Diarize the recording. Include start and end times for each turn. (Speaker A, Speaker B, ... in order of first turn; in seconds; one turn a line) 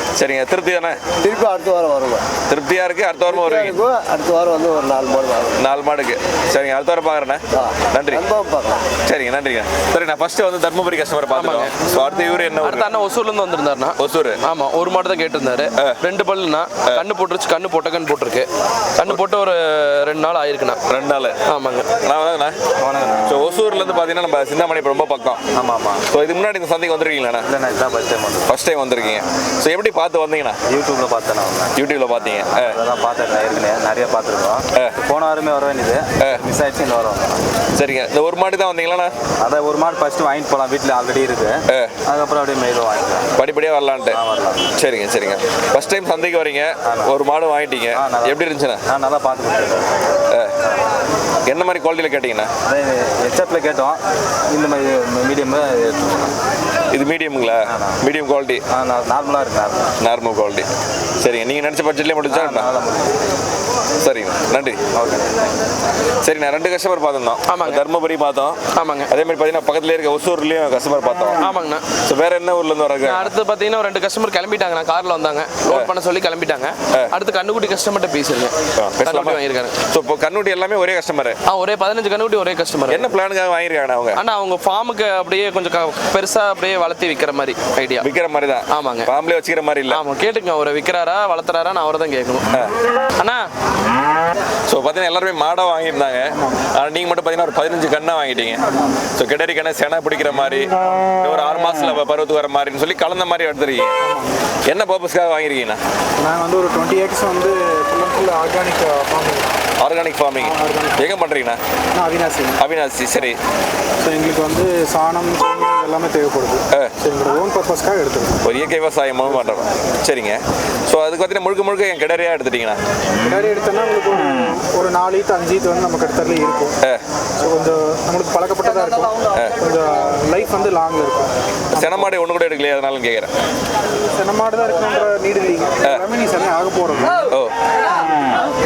Speaker A: 0.1-1.0
Speaker B: 1.2-2.2
Speaker A: 2.5-3.8
Speaker B: 3.3-5.6
Speaker A: 5.6-8.2
Speaker B: 7.5-8.9
Speaker A: 9.0-12.9
Speaker C: 11.3-11.8
Speaker C: 12.6-20.8
Speaker A: 14.0-14.4
Speaker A: 20.9-21.4
Speaker C: 21.4-21.9
Speaker A: 22.0-22.6
Speaker D: 22.8-23.4
Speaker A: 23.2-25.4
Speaker D: 25.5-26.1
Speaker A: 26.1-27.5
Speaker D: 27.4-28.6
Speaker A: 28.5-30.6
Speaker D: 30.7-37.5
Speaker A: 31.7-32.8
Speaker A: 37.7-39.1
Speaker D: 39.4-43.3
Speaker A: 41.7-42.0
Speaker A: 43.4-44.2
Speaker D: 44.1-44.7
Speaker A: 44.7-48.8
Speaker D: 46.8-47.1
Speaker D: 47.9-50.0
Speaker A: 50.3-50.5
Speaker A: 51.5-52.5
Speaker D: 52.7-56.3
Speaker A: 56.9-58.6
Speaker D: 57.7-58.0
Speaker D: 58.7-59.9
Speaker A: 60.0-60.7
Speaker A: 61.2-62.7
Speaker D: 62.3-63.1
Speaker A: 64.0-64.8
Speaker D: 64.9-65.3
Speaker A: 66.2-68.6
Speaker C: 67.5-67.8
Speaker C: 68.7-69.1
Speaker A: 69.1-71.4
Speaker C: 71.4-71.9
Speaker A: 72.0-73.3
Speaker C: 73.0-79.8
Speaker A: 78.7-81.4
Speaker C: 81.5-83.1
Speaker A: 82.9-84.2
Speaker C: 84.1-88.1
Speaker A: 88.0-90.0
Speaker C: 88.7-89.1
Speaker C: 89.9-92.5
Speaker C: 93.2-93.5
Speaker A: 94.7-98.6
Speaker E: 96.3-96.6
Speaker A: 99.2-104.0
Speaker E: 104.0-104.4
Speaker A: 104.6-105.8
Speaker E: 106.2-109.4
Speaker A: 109.8-111.6
Speaker E: 110.4-111.0
Speaker E: 111.9-112.6
Speaker A: 112.6-113.4
Speaker E: 114.0-118.3
Speaker A: 118.4-122.8
Speaker E: 123.2-126.7
Speaker E: 127.4-132.1
Speaker A: 131.7-133.3
Speaker E: 134.1-137.2